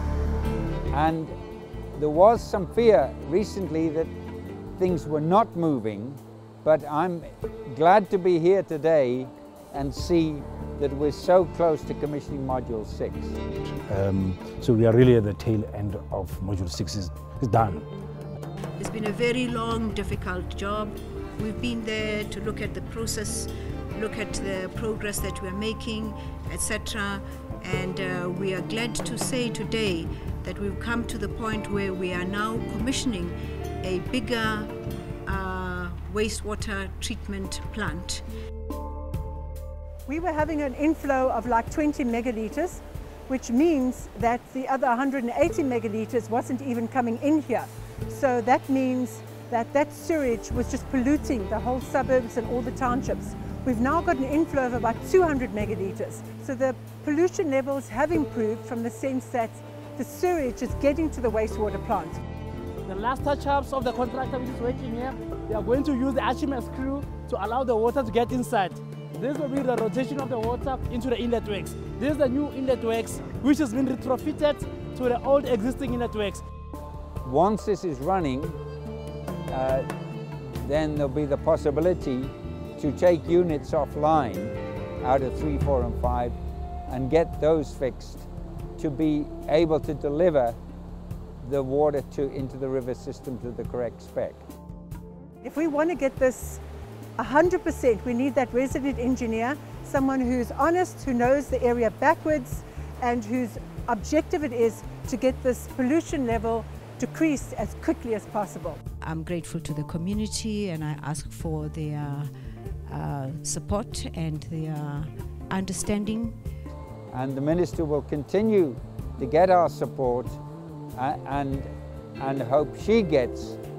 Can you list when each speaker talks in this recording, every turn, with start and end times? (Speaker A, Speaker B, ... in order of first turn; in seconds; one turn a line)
Speaker A: 0.9-1.3
Speaker A: 1.9-4.1
Speaker A: 4.8-13.4
Speaker B: 13.9-17.9
Speaker C: 18.8-34.7
Speaker C: 35.2-38.2
Speaker D: 40.1-62.2
Speaker E: 62.9-76.4
Speaker A: 77.2-78.6
Speaker A: 79.5-79.9
Speaker A: 80.4-86.3
Speaker A: 86.9-90.6
Speaker A: 91.4-94.4
Speaker D: 95.4-96.6
Speaker D: 97.2-108.8
Speaker C: 109.0-112.3
Speaker C: 112.9-116.4
Speaker A: 117.1-120.4
Speaker A: 121.0-123.6